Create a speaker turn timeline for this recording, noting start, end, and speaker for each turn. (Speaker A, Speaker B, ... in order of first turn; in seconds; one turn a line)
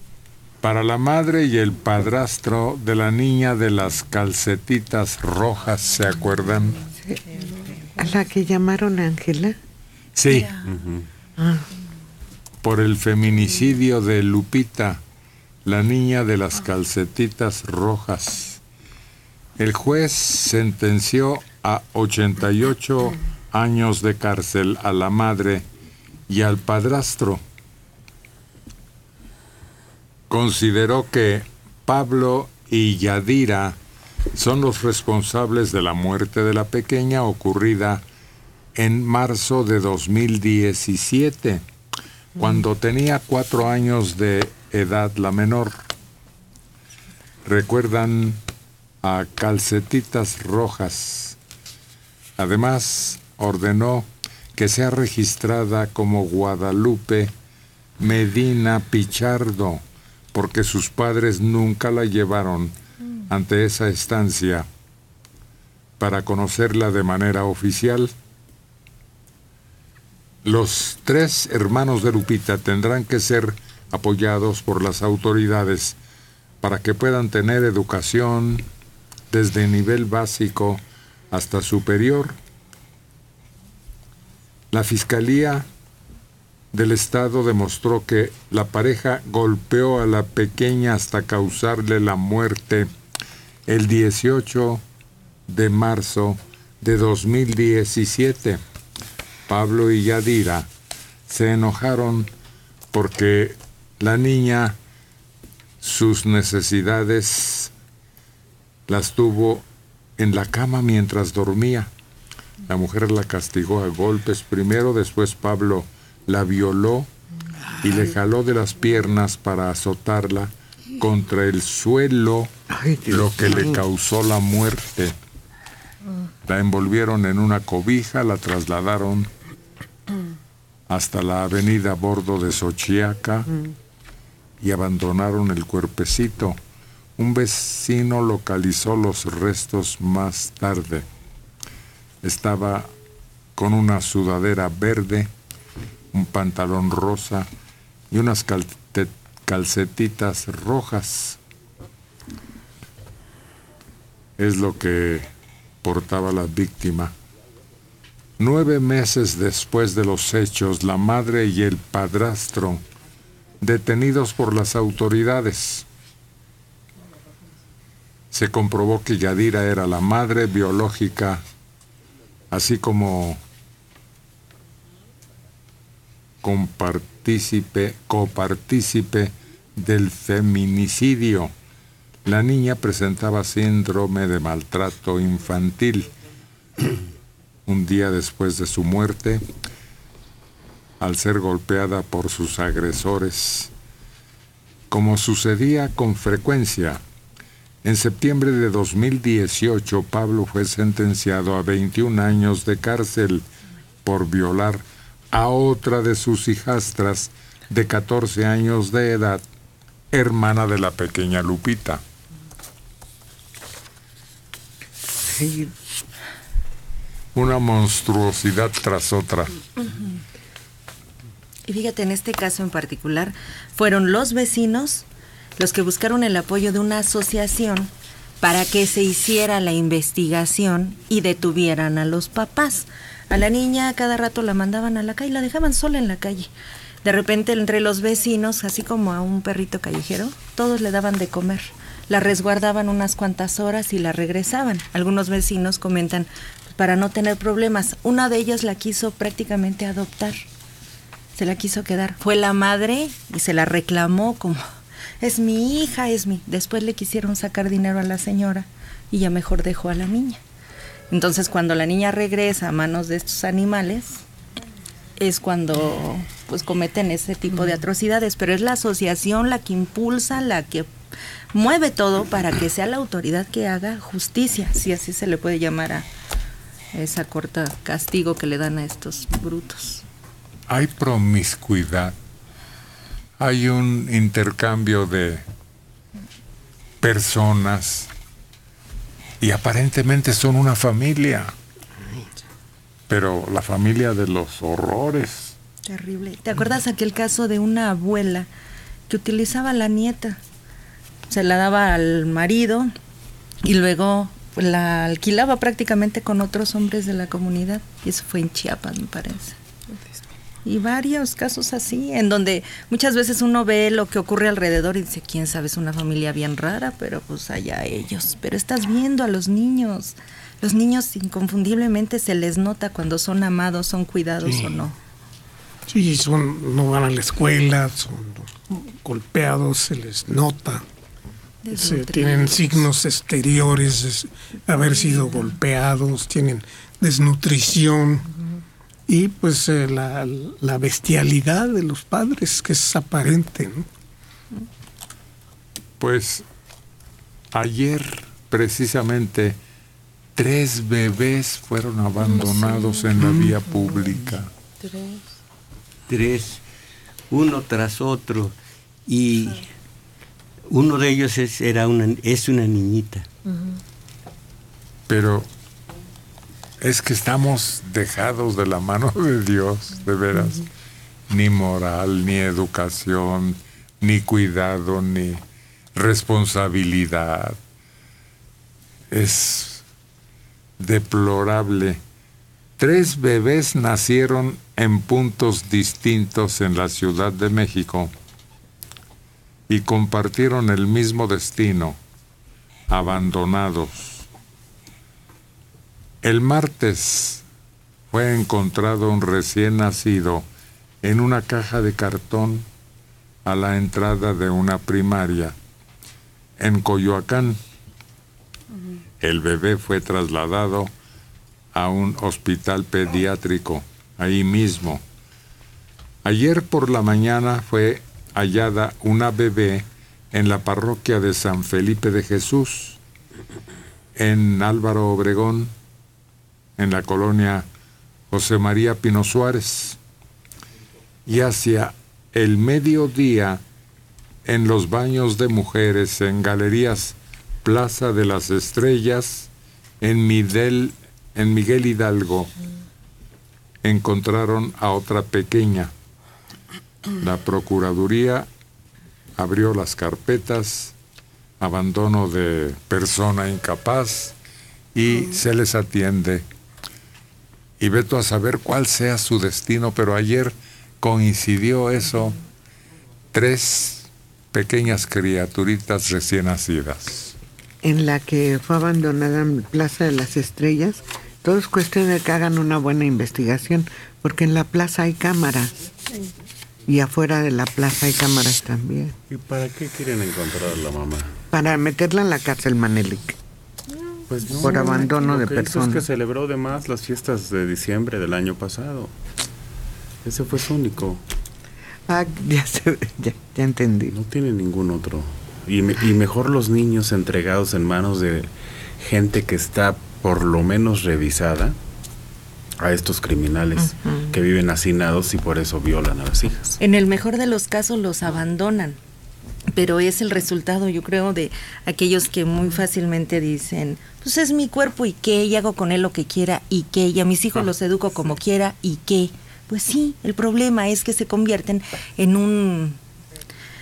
Speaker A: 0.6-6.8
Speaker B: 8.0-9.6
Speaker A: 10.2-10.6
Speaker C: 10.7-11.1
Speaker B: 11.4-11.7
Speaker A: 12.6-15.0
Speaker A: 15.7-18.6
Speaker A: 19.6-25.7
Speaker A: 26.3-27.4
Speaker A: 30.3-33.8
Speaker A: 34.3-38.0
Speaker A: 38.8-41.6
Speaker A: 42.4-45.8
Speaker A: 47.5-48.4
Speaker A: 49.0-51.4
Speaker A: 52.4-57.3
Speaker A: 58.0-59.8
Speaker A: 60.3-62.8
Speaker A: 63.3-64.7
Speaker A: 66.0-68.1
Speaker A: 70.4-76.0
Speaker A: 76.6-78.6
Speaker A: 79.3-80.8
Speaker A: 81.3-82.4
Speaker A: 84.7-85.7
Speaker A: 86.7-92.9
Speaker A: 93.7-94.8
Speaker A: 95.5-98.6
Speaker A: 99.5-100.7
Speaker A: 101.3-102.3
Speaker A: 102.9-104.8
Speaker A: 105.8-107.7
Speaker A: 108.9-109.6
Speaker A: 110.2-111.9
Speaker A: 112.7-117.1
Speaker A: 117.8-122.5
Speaker B: 122.7-123.8
Speaker A: 123.1-125.2
Speaker A: 126.5-129.3
Speaker A: 130.9-133.5
Speaker A: 134.6-136.6
Speaker A: 137.2-141.1
Speaker A: 142.2-142.9
Speaker A: 143.6-145.3
Speaker A: 146.1-147.5
Speaker A: 148.1-151.4
Speaker A: 154.4-155.3
Speaker A: 155.8-157.1
Speaker A: 158.4-162.8
Speaker A: 163.6-165.9
Speaker A: 168.3-171.4
Speaker A: 172.5-173.4
Speaker A: 176.4-181.5
Speaker A: 182.2-186.1
Speaker A: 187.7-189.4
Speaker A: 191.0-193.7
Speaker A: 194.9-197.0
Speaker A: 197.8-203.4
Speaker A: 204.1-209.4
Speaker A: 210.1-212.0
Speaker B: 215.2-215.7
Speaker A: 217.3-219.5
Speaker D: 221.7-225.1
Speaker D: 225.6-236.5
Speaker D: 237.0-250.4
Speaker D: 251.3-254.6
Speaker D: 255.2-260.4
Speaker D: 261.1-264.2
Speaker D: 265.2-270.9
Speaker D: 271.5-276.1
Speaker D: 276.9-280.0
Speaker A: 280.7-282.1
Speaker A: 283.4-285.4
Speaker A: 287.0-288.1
Speaker A: 289.4-291.5
Speaker A: 293.1-295.6
Speaker D: 295.9-298.5
Speaker D: 299.1-300.4
Speaker D: 301.3-302.9
Speaker D: 303.6-309.6
Speaker D: 310.6-325.0
Speaker E: 325.9-330.8
Speaker D: 331.6-332.9
Speaker E: 331.7-338.3
Speaker E: 339.1-343.9
Speaker A: 346.0-346.4
Speaker A: 347.5-349.6
Speaker A: 350.4-354.5
Speaker F: 356.1-356.6
Speaker F: 357.3-358.6
Speaker F: 359.1-359.6
Speaker F: 360.7-363.3
Speaker A: 365.1-365.5
Speaker A: 366.8-370.7
Speaker A: 371.3-375.4
Speaker A: 375.9-377.6
Speaker A: 379.1-379.9
Speaker A: 380.8-382.0
Speaker A: 382.8-388.1
Speaker A: 389.7-392.0
Speaker A: 392.9-394.3
Speaker A: 396.2-397.4
Speaker A: 398.1-400.5
Speaker A: 401.0-402.7
Speaker A: 403.4-405.6
Speaker A: 406.6-407.6
Speaker A: 409.2-410.9
Speaker A: 411.7-415.0
Speaker A: 416.2-423.0
Speaker A: 424.1-425.7
Speaker A: 426.8-427.7
Speaker A: 428.3-430.0
Speaker A: 431.3-433.6
Speaker A: 434.4-439.5
Speaker A: 440.0-442.5
Speaker A: 443.8-445.9
Speaker A: 447.2-448.5
Speaker A: 449.4-450.9
Speaker A: 451.6-454.4
Speaker A: 454.9-456.5
Speaker A: 457.8-462.4
Speaker A: 463.3-467.4
Speaker B: 467.8-475.7
Speaker B: 476.9-479.1
Speaker C: 479.3-481.3
Speaker B: 481.5-483.4
Speaker C: 484.3-489.1
Speaker B: 484.6-486.1
Speaker C: 490.2-491.2
Speaker B: 492.1-494.2
Speaker C: 494.1-501.8
Speaker C: 502.8-506.8
Speaker D: 506.8-509.0
Speaker D: 509.7-523.0